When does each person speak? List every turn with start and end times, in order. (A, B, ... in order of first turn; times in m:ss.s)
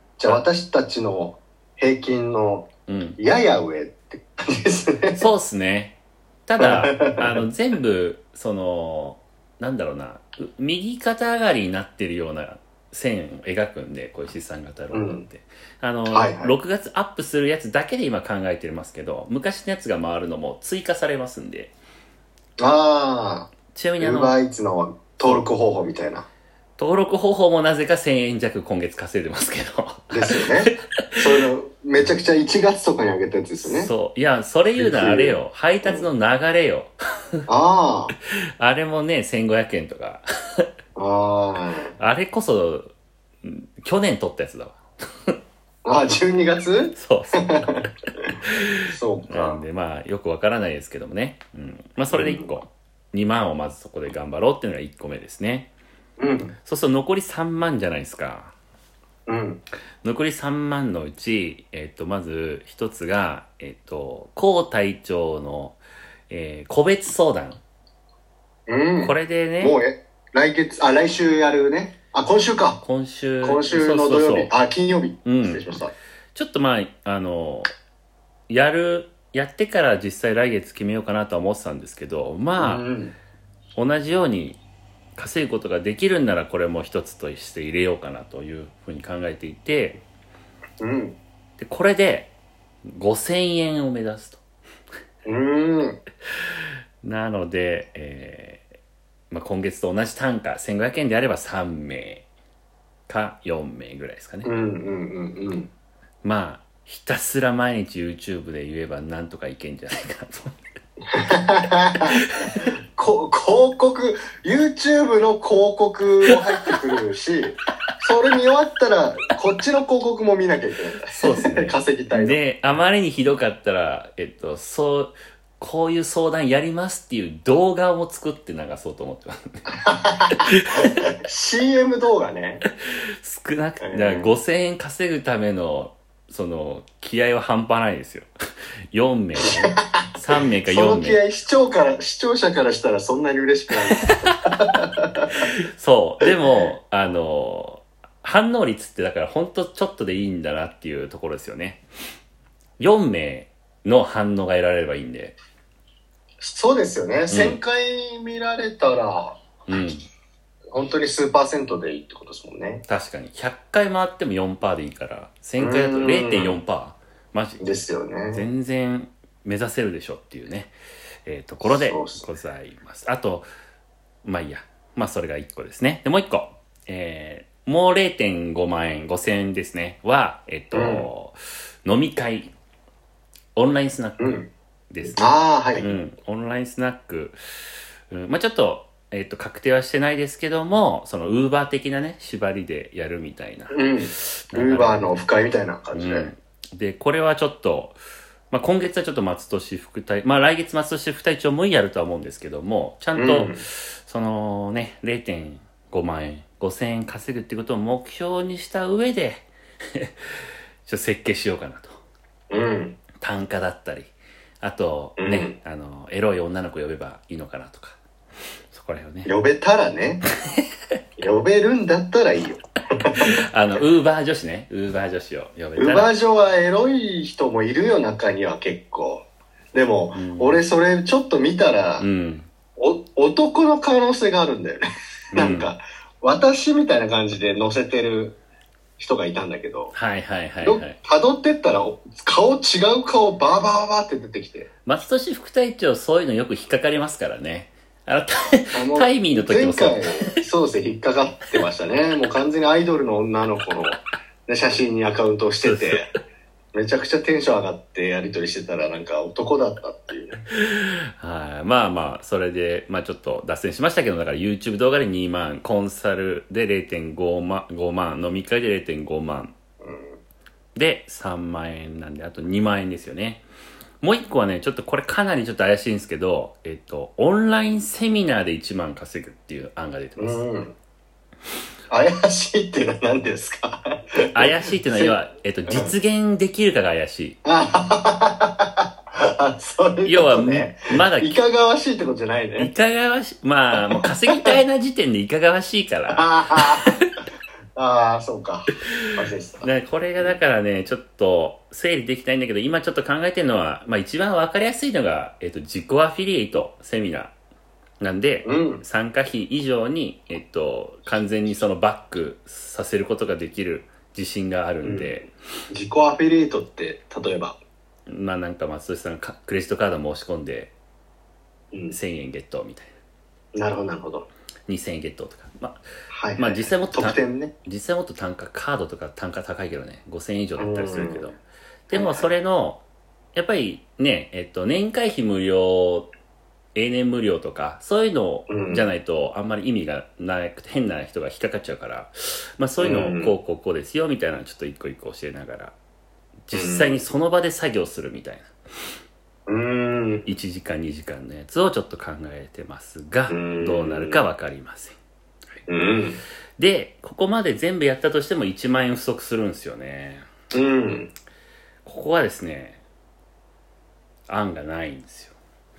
0:00.2-0:05.2 A
0:02.9-0:03.2 B
0:05.1-0:21.7 B
0:06.6-0:07.4 A
0:14.9-0:15.3 A
0:16.1-0:16.5 A
0:22.6-0:26.3 A
0:23.7-0:24.4 B
0:26.8-0:30.5 B
0:30.1-0:33.9 A
0:33.6-0:37.5 B
0:34.8-0:36.1 A
0:37.5-0:38.1 A
0:38.6-0:40.6 B
0:41.0-0:42.0 A
0:42.0-0:42.9 B
0:43.4-0:45.4 B
0:45.8-0:47.9 A
0:47.0-0:47.9 B
0:48.4-0:55.7 B
0:48.9-0:49.6 A
0:52.1-0:52.5 A
0:56.2-0:56.6 A
0:56.6-0:58.6 B
0:59.3-0:59.6 A
1:00.0-1:07.6 B
1:08.7-1:12.8 A
1:09.0-1:09.8 B
1:12.8-1:14.5 B
1:13.4-1:15.9 A
1:15.2-1:15.7 B
1:16.4-1:17.7 B
1:18.5-1:22.8 B
1:22.6-1:23.2 A
1:23.8-1:24.6 B
1:25.2-1:30.0 B
1:30.8-1:31.2 A
1:31.6-1:32.3 B
1:32.9-1:34.4 B
1:35.3-1:36.0 A
1:36.4-1:38.7 B
1:39.3-1:42.2 B
1:43.1-1:44.5 B
1:44.4-1:45.7 A
1:46.2-1:50.6 B
1:51.1-2:02.4 A
1:52.2-1:52.6 B
2:01.1-2:09.7 B
2:09.8-2:10.4 A
2:10.3-2:10.9 B
2:11.2-2:12.6 A
2:13.2-2:18.3 B
2:13.8-2:14.3 A
2:18.9-2:21.2 B
2:19.5-2:20.1 A
2:20.6-2:25.5 A
2:25.5-2:31.8 B
2:32.8-2:35.4 B
2:36.4-2:39.4 A
2:37.3-2:37.6 B
2:39.7-2:40.0 B
2:40.7-2:42.8 A
2:42.9-2:47.6 B
2:45.6-2:46.6 A
2:47.6-2:48.4 A
2:48.3-2:50.7 B
2:51.2-2:53.5 B
2:51.6-2:52.3 A
2:54.2-3:02.5 B
3:00.7-3:01.1 A
3:03.6-3:04.4 B
3:04.2-3:04.5 A
3:04.9-3:07.4 B
3:05.1-3:05.9 A
3:08.1-3:15.2 B
3:13.7-3:16.3 A
3:15.9-3:18.0 B
3:18.5-3:30.2 B
3:23.2-3:23.6 A
3:30.9-3:32.0 B
3:32.5-3:33.0 A
3:33.2-3:38.0 B
3:35.2-3:35.6 A
3:38.7-3:39.3 B
3:39.2-3:40.2 A
3:41.2-3:43.2 A
3:43.2-3:46.1 B
3:45.8-3:52.1 A
3:50.2-3:50.6 B
3:52.0-3:52.5 B
3:52.8-3:58.4 A
3:55.3-3:55.7 B
3:59.0-3:59.9 A
3:59.9-4:01.0 B
4:00.6-4:04.7 A
4:04.9-4:10.1 B
4:08.7-4:16.1 A
4:15.6-4:16.0 B
4:16.7-4:20.4 A
4:20.6-4:29.5 B
4:29.8-4:30.2 A
4:30.8-4:33.4 B
4:34.0-4:40.4 B
4:40.2-4:40.8 A
4:41.9-4:45.2 A
4:44.3-4:47.4 B
4:45.7-4:45.9 A
4:47.4-4:52.7 A
4:50.1-4:51.4 B
4:52.6-4:57.1 B
4:53.9-4:54.6 A
4:56.1-4:56.9 A
4:57.8-4:59.7 A
4:59.6-5:07.3 B
5:08.0-5:15.3 B
5:08.4-5:08.8 A
5:14.8-5:17.6 A
5:18.1-5:20.7 B
5:21.9-5:22.9 B
5:23.6-5:24.3 A
5:24.7-5:25.8 B
5:26.1-5:27.5 A
5:26.4-5:31.4 B
5:30.6-5:31.4 A
5:31.9-5:32.8 B
5:31.9-5:32.3 A
5:33.4-5:36.1 B
5:36.8-5:45.8 B
5:38.5-5:38.9 A
5:42.8-5:43.4 A
5:46.5-5:48.5 B
5:46.5-5:47.0 A
5:49.5-5:50.3 A
5:50.3-5:55.0 B
5:53.3-5:54.2 A
5:55.7-5:56.2 A
5:56.6-6:00.3 B
6:00.5-6:01.1 A
6:01.8-6:02.8 B
6:04.3-6:05.4 B